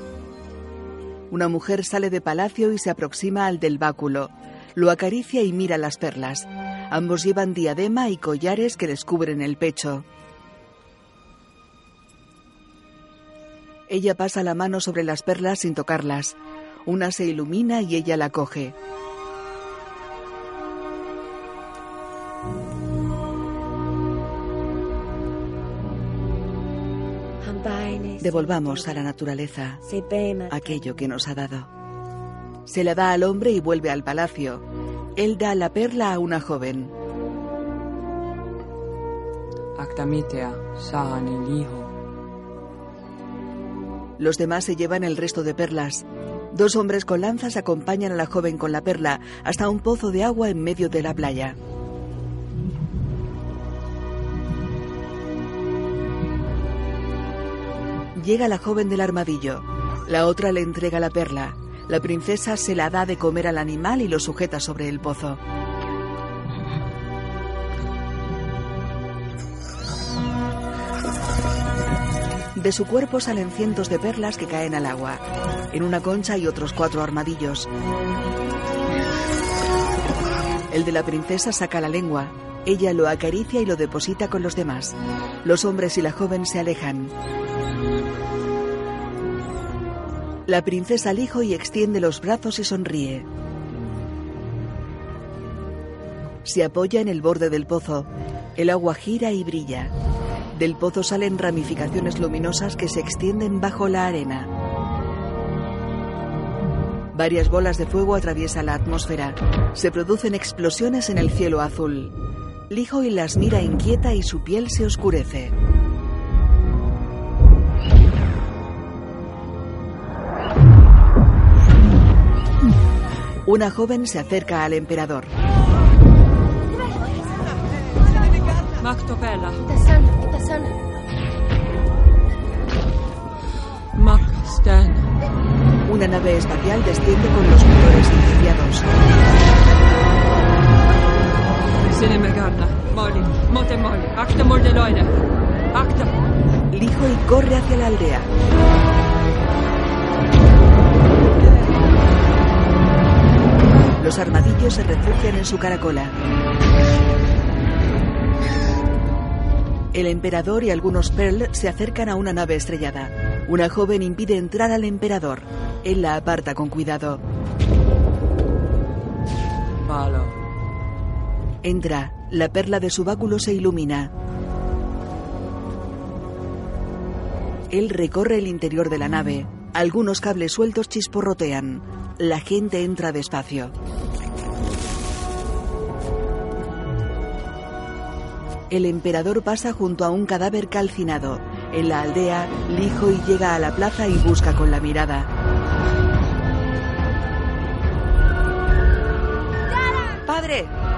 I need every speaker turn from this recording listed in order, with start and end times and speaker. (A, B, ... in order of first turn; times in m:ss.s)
0:01.3-0:10.0 A
0:13.9-0:18.8 A
0:28.2-0:29.8 A
0:30.5-0:31.7 A
0:32.6-0:34.6 A
0:35.2-0:36.9 A
0:39.8-0:41.9 B
0:44.2-0:51.6 A
0:58.2-1:05.4 A
1:12.5-1:17.7 A
1:20.7-1:27.1 A
1:30.5-1:33.3 A
1:36.4-1:39.9 A
1:40.5-1:44.5 A
1:47.1-1:52.1 A
1:52.7-1:55.6 A
2:03.4-2:05.3 A
2:08.8-2:09.6 B
2:13.9-2:15.1 B
2:15.8-2:18.9 A
2:21.9-2:25.1 B
2:25.7-2:26.1 B
2:26.7-2:28.3 A
2:34.0-2:36.2 A
2:39.9-2:47.2 A
2:49.8-2:50.4 B
2:51.6-2:54.1 A
2:57.7-3:03.7 A
3:08.7-3:15.3 A
3:20.2-3:20.7 A